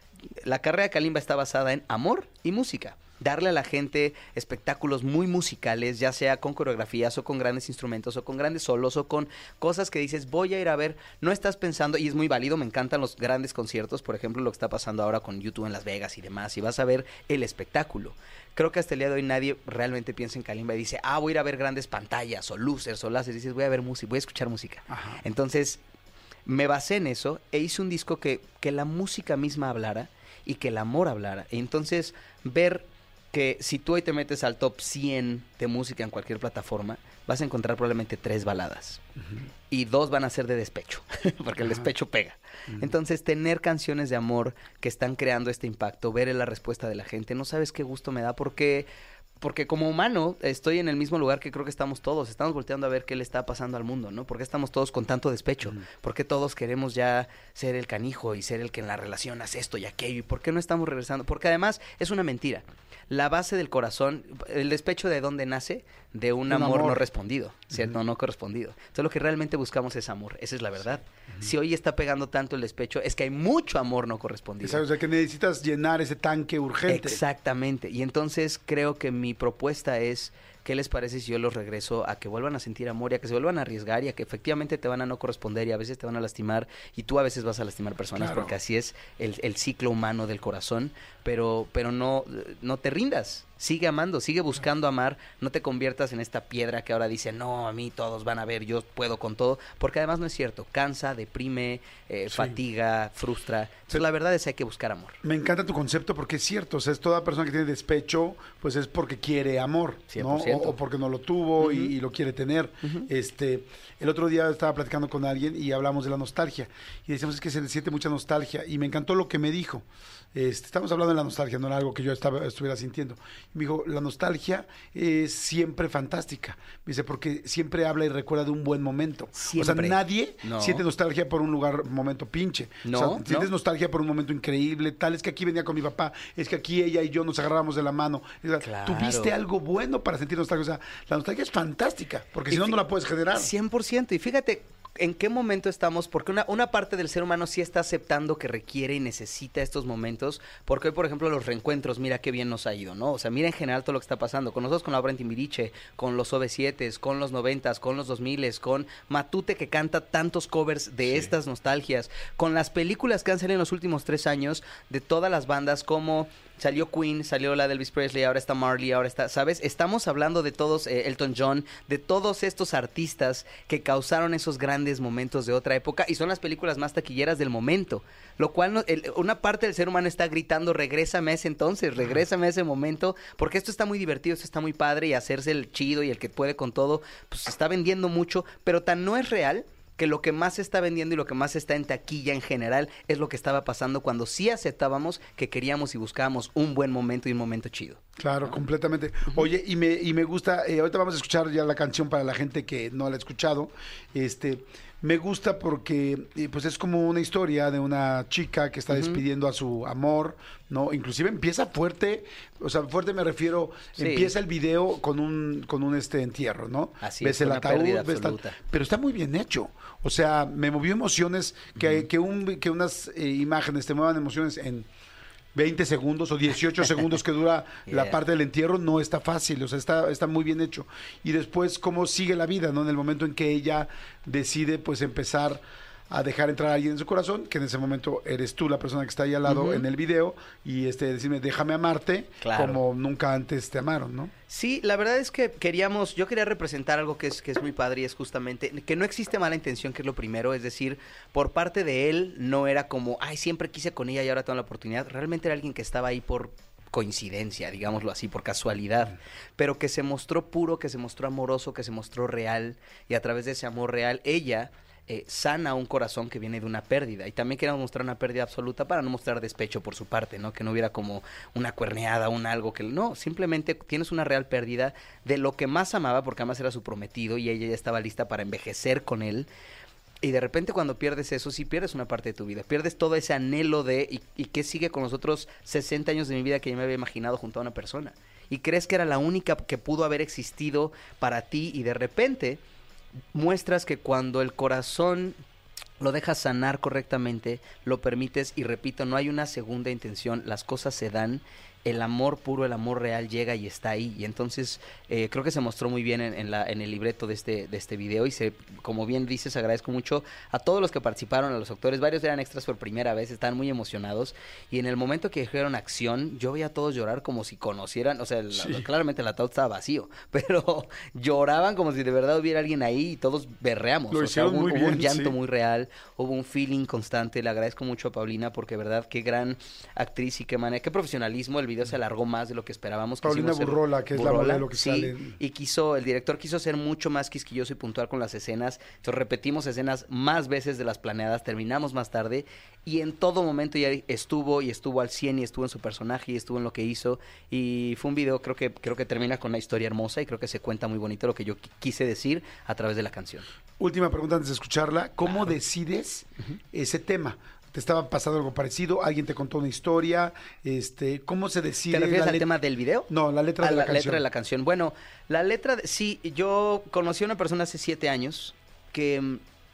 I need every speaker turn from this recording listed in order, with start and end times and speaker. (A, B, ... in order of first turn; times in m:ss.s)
0:00.3-0:25.8 A
0:24.9-0:25.2 B
0:26.5-0:39.0 A
0:39.7-0:48.9 A
0:41.6-0:41.9 B
0:49.4-1:14.8 A
1:06.5-1:07.0 B
1:14.6-1:17.2 B
1:16.9-1:45.2 A
1:28.2-1:28.5 B
1:42.3-1:42.6 B
1:45.2-2:23.5 B
1:50.1-1:50.8 A
1:51.6-1:51.9 A
1:52.8-1:53.1 A
2:09.4-2:10.8 A
2:12.8-2:13.5 A
2:18.6-2:19.3 A
2:22.5-2:22.8 A
2:23.3-3:18.6 A
3:18.2-3:44.9 B
3:28.9-3:29.2 A
3:34.0-3:34.3 A
3:37.0-3:38.6 A
3:45.6-4:04.3 B
3:47.9-3:48.2 A
3:59.5-3:59.9 A
4:02.4-4:02.8 A
4:04.5-4:39.5 A
4:40.2-4:52.6 A
4:53.3-4:55.4 A
4:56.0-5:53.5 A
5:18.5-5:18.9 B
5:24.1-5:25.4 B
5:33.2-5:35.4 B
5:53.8-6:02.5 B
6:01.9-6:09.4 A
6:03.1-6:04.2 B